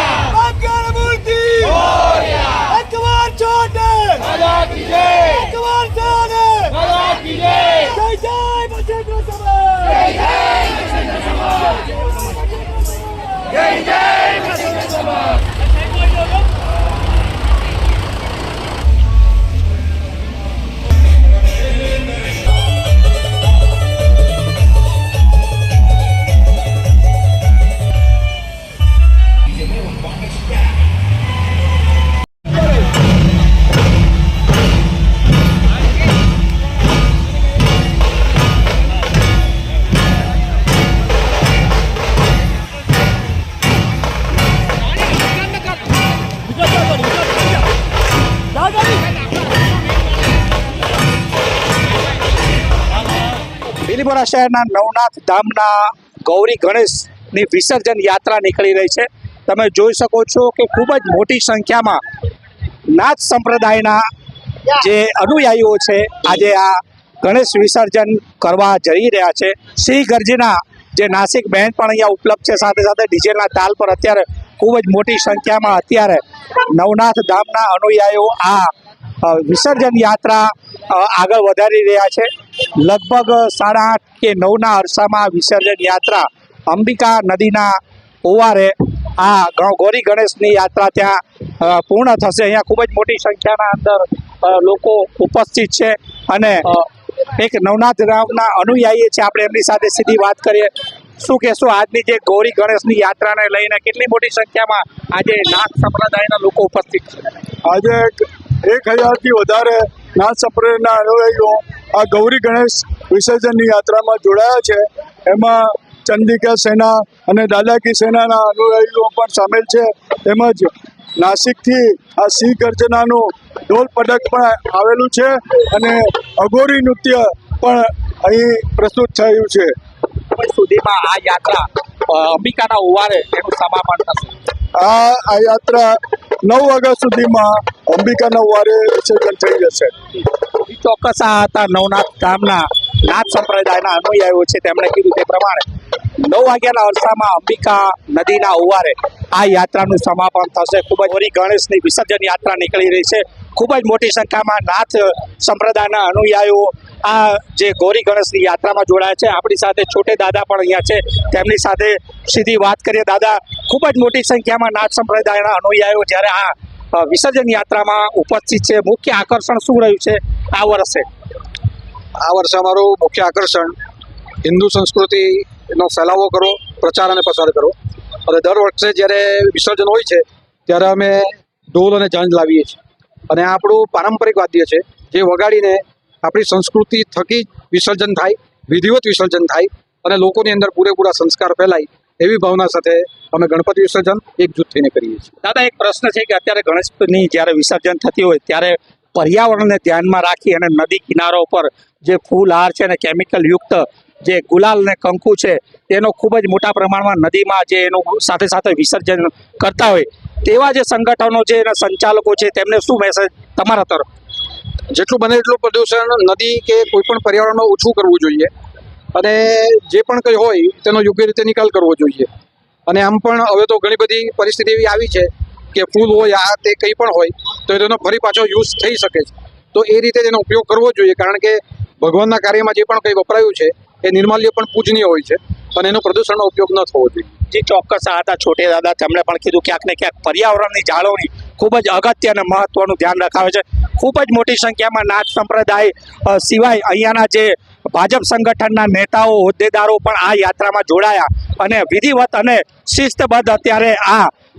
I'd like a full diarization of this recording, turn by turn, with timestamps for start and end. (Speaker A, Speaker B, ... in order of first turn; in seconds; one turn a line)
Speaker A: 0.4-1.9
Speaker A: 2.7-4.4
Speaker A: 5.1-6.9
Speaker A: 7.8-9.9
Speaker B: 53.8-62.0
Speaker B: 62.9-64.0
Speaker B: 64.7-78.7
Speaker B: 79.2-82.3
Speaker B: 82.8-107.2
Speaker A: 107.6-129.7
Speaker B: 130.3-134.3
Speaker A: 134.8-139.9
Speaker B: 140.6-145.7
Speaker B: 146.2-171.1
Speaker C: 172.2-173.8
Speaker C: 174.4-177.7
Speaker C: 178.2-182.8
Speaker C: 183.3-195.3
Speaker B: 195.4-214.1
Speaker C: 214.9-218.5
Speaker C: 219.1-222.3
Speaker C: 222.9-237.3
Speaker B: 237.5-254.3